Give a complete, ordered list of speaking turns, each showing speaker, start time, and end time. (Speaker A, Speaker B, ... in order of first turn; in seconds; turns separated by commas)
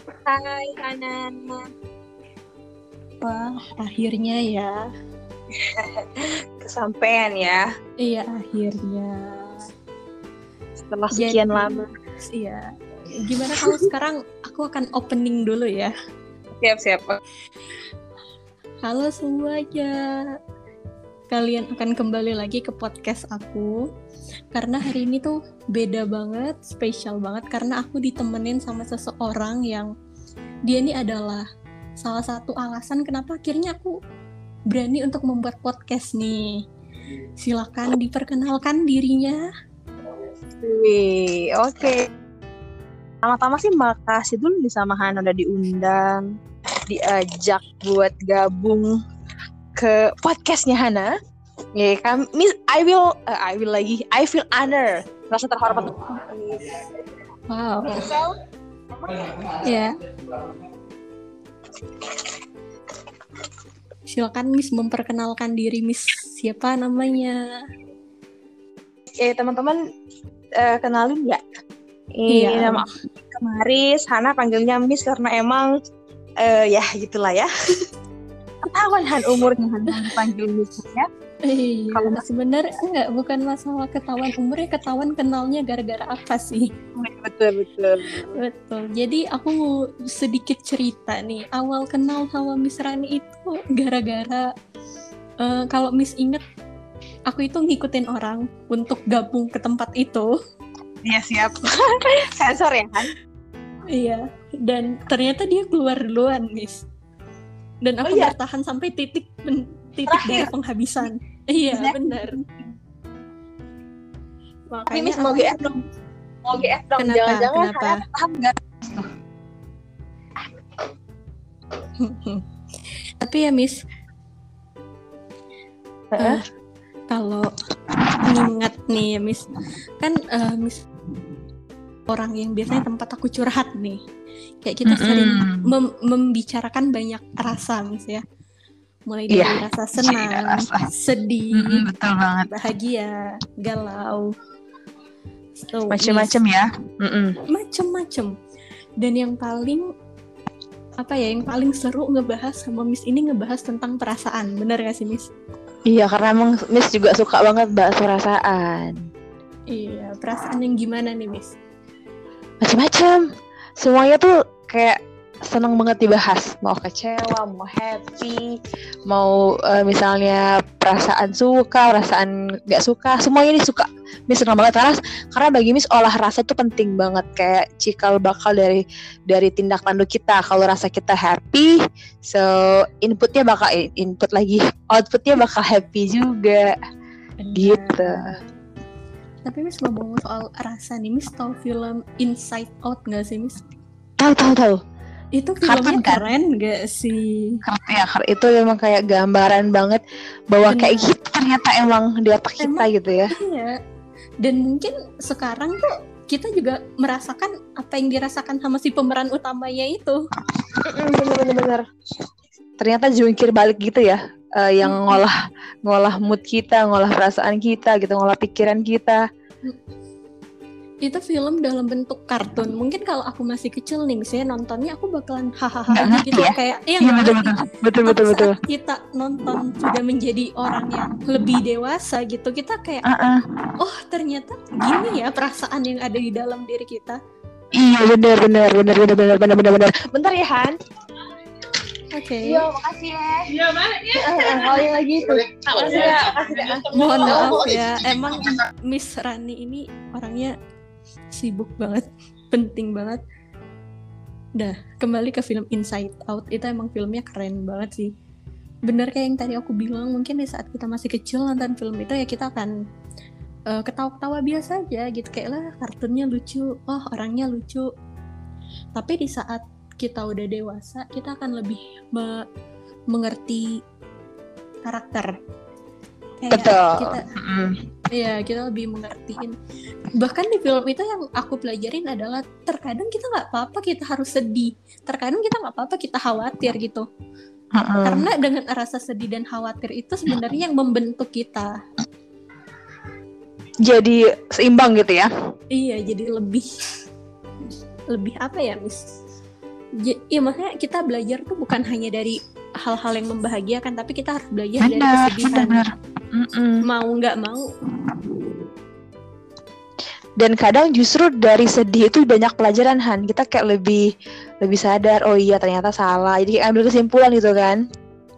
Speaker A: 0.3-1.6, Speaker B: 3.2-4.8, Speaker A: 5.6-7.7, Speaker B: 8.0-9.7, Speaker A: 10.8-11.9, Speaker B: 11.1-12.7, Speaker B: 13.2-15.9, Speaker A: 16.6-17.2, Speaker B: 18.9-20.0, Speaker B: 21.3-23.7, Speaker B: 24.5-29.9, Speaker B: 30.7-31.4, Speaker B: 32.0-33.9, Speaker B: 34.7-36.5, Speaker B: 37.4-39.4, Speaker A: 40.6-42.0, Speaker A: 43.2-46.2, Speaker A: 46.9-48.9, Speaker A: 49.8-51.1, Speaker A: 51.8-56.8, Speaker B: 57.5-58.1, Speaker A: 57.8-58.3, Speaker A: 59.0-59.4, Speaker B: 59.6-60.0, Speaker B: 64.1-67.4, Speaker A: 69.2-69.8, Speaker A: 70.6-71.4, Speaker A: 72.2-75.7, Speaker B: 72.3-72.8, Speaker A: 76.4-77.5, Speaker A: 78.7-81.1, Speaker B: 81.5-86.7, Speaker A: 81.9-82.2, Speaker A: 87.0-88.4, Speaker B: 88.2-94.5, Speaker B: 95.4-96.4, Speaker B: 97.3-100.3, Speaker A: 101.0-103.1, Speaker B: 103.9-106.8, Speaker B: 107.8-112.4, Speaker A: 108.0-108.3, Speaker A: 110.1-110.5, Speaker A: 111.7-112.6, Speaker B: 114.7-115.6, Speaker A: 114.9-115.8, Speaker A: 116.5-119.1, Speaker B: 117.0-118.0, Speaker B: 122.0-122.4, Speaker B: 123.2-123.8, Speaker A: 126.1-126.4, Speaker B: 126.2-126.4, Speaker B: 127.1-127.5, Speaker B: 128.2-129.5, Speaker B: 130.0-130.8, Speaker B: 132.1-134.0, Speaker B: 134.6-138.2, Speaker A: 134.9-135.7, Speaker B: 139.1-141.8, Speaker A: 139.3-140.9, Speaker A: 141.5-142.5, Speaker B: 142.5-144.3, Speaker B: 145.6-146.4, Speaker A: 145.9-147.3, Speaker B: 147.5-148.3, Speaker B: 149.0-149.8, Speaker B: 151.0-155.3, Speaker A: 155.9-158.9, Speaker B: 159.7-161.5, Speaker A: 162.6-163.2, Speaker A: 163.8-165.0, Speaker A: 165.5-168.5, Speaker A: 169.1-186.8, Speaker B: 187.4-188.4, Speaker A: 187.6-188.3, Speaker B: 189.5-193.7, Speaker A: 194.2-194.8, Speaker B: 195.3-197.6, Speaker A: 195.6-196.3, Speaker A: 197.7-203.3, Speaker B: 200.7-201.1, Speaker B: 202.6-203.8, Speaker B: 204.4-210.2, Speaker A: 210.8-211.8, Speaker A: 212.8-219.2, Speaker B: 214.8-215.2, Speaker B: 221.0-233.1, Speaker A: 225.9-228.6, Speaker A: 233.1-233.4, Speaker B: 233.8-237.2, Speaker A: 237.7-240.7, Speaker B: 242.1-242.7, Speaker A: 242.4-247.9, Speaker B: 246.9-250.5, Speaker B: 251.3-253.2, Speaker B: 254.6-258.1, Speaker B: 258.9-262.7, Speaker B: 263.7-267.9, Speaker B: 269.0-272.4, Speaker B: 273.1-273.8, Speaker B: 274.9-275.3, Speaker B: 276.4-277.2, Speaker A: 276.5-277.8, Speaker B: 278.1-279.6, Speaker B: 280.2-287.0, Speaker A: 287.8-288.3, Speaker B: 288.0-291.7, Speaker A: 293.9-295.3, Speaker B: 295.7-296.7, Speaker B: 298.1-299.1, Speaker B: 300.0-305.8, Speaker A: 304.8-306.8, Speaker B: 306.8-307.7, Speaker A: 310.4-314.0, Speaker A: 314.6-317.8